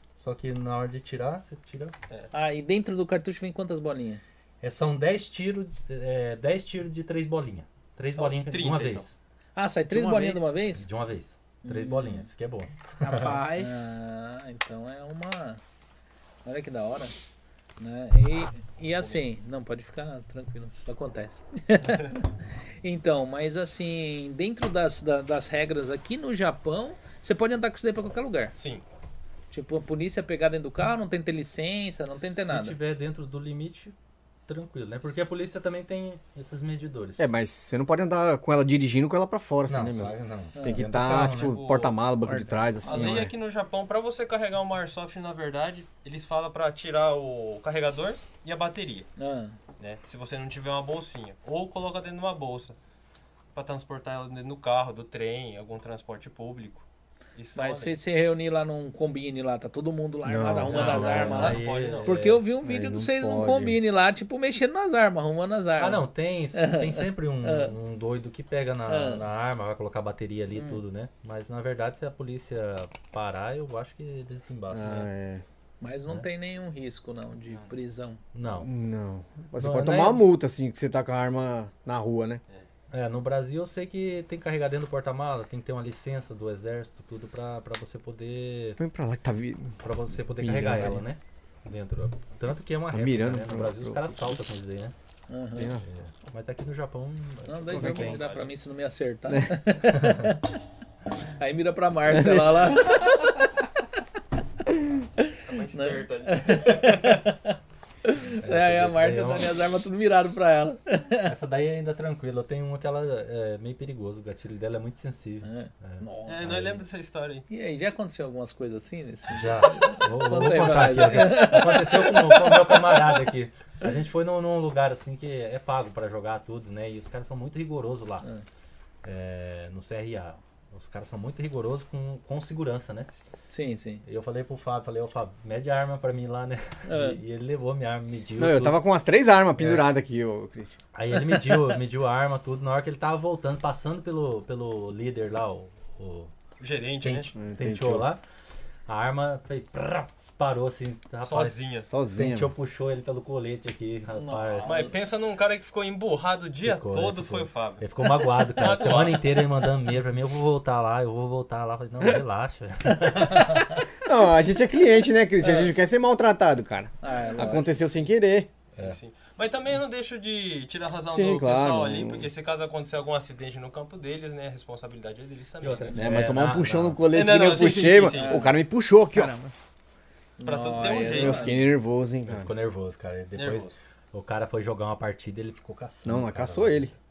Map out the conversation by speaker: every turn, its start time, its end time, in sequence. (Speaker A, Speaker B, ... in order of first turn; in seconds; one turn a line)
Speaker A: 0.2-1.9
Speaker B: 2.3-4.2
Speaker A: 4.6-9.2
Speaker C: 8.1-9.1
Speaker B: 9.6-10.9
Speaker D: 9.9-10.6
Speaker A: 10.7-13.4
Speaker B: 11.6-12.3
Speaker D: 13.0-13.9
Speaker B: 13.5-15.6
Speaker B: 16.4-17.1
Speaker B: 17.8-22.3
Speaker C: 18.8-19.2
Speaker B: 22.8-28.5
Speaker C: 28.6-28.8
Speaker B: 29.5-32.8
Speaker A: 32.2-33.9
Speaker A: 34.5-37.2
Speaker E: 37.2-43.3
Speaker A: 39.7-41.7
Speaker B: 40.5-40.9
Speaker C: 41.3-42.0
Speaker C: 42.8-49.1
Speaker B: 49.2-49.6
Speaker C: 49.8-52.8
Speaker C: 53.5-58.0
Speaker B: 57.5-67.8
Speaker E: 60.2-61.6
Speaker A: 60.7-62.4
Speaker C: 60.8-62.1
Speaker E: 62.6-63.8
Speaker A: 65.8-75.1
Speaker B: 68.9-69.2
Speaker B: 70.5-70.8
Speaker E: 74.7-75.4
Speaker B: 75.8-78.2
Speaker A: 78.3-78.7
Speaker E: 78.5-82.4
Speaker A: 79.6-80.3
Speaker A: 82.9-88.8
Speaker E: 88.8-89.8
Speaker A: 89.8-94.9
Speaker E: 90.4-91.1
Speaker E: 92.9-94.4
Speaker B: 95.3-95.7
Speaker E: 95.5-95.8
Speaker A: 95.8-98.2
Speaker B: 97.5-100.6
Speaker C: 97.7-98.5
Speaker E: 99.3-99.5
Speaker B: 101.2-104.0
Speaker E: 102.1-102.4
Speaker B: 105.2-111.3
Speaker C: 105.4-107.2
Speaker A: 108.4-109.5
Speaker A: 111.2-116.8
Speaker B: 115.4-116.7
Speaker C: 116.3-117.5
Speaker B: 117.5-123.2
Speaker A: 119.3-128.3
Speaker A: 129.0-133.1
Speaker B: 133.5-134.0
Speaker A: 134.0-138.8
Speaker B: 136.9-137.2
Speaker E: 138.4-140.8
Speaker A: 139.6-139.9
Speaker A: 140.9-146.3
Speaker C: 146.6-147.3
Speaker A: 147.0-148.2
Speaker E: 147.4-148.1
Speaker A: 148.9-151.6
Speaker C: 151.2-151.9
Speaker E: 151.9-152.5
Speaker A: 152.1-154.8
Speaker B: 154.2-155.0
Speaker C: 154.6-159.5
Speaker A: 156.6-163.8
Speaker E: 164.0-168.5
Speaker B: 165.4-165.7
Speaker B: 167.0-167.8
Speaker C: 168.8-176.1
Speaker E: 171.1-172.3
Speaker A: 175.6-177.0
Speaker B: 175.6-176.0
Speaker E: 175.9-179.3
Speaker C: 177.1-178.4
Speaker B: 178.1-178.5
Speaker D: 179.1-179.5
Speaker B: 180.4-181.6
Speaker C: 180.4-181.6
Speaker E: 181.1-182.5
Speaker A: 182.3-186.9
Speaker C: 183.3-183.7
Speaker E: 186.1-186.9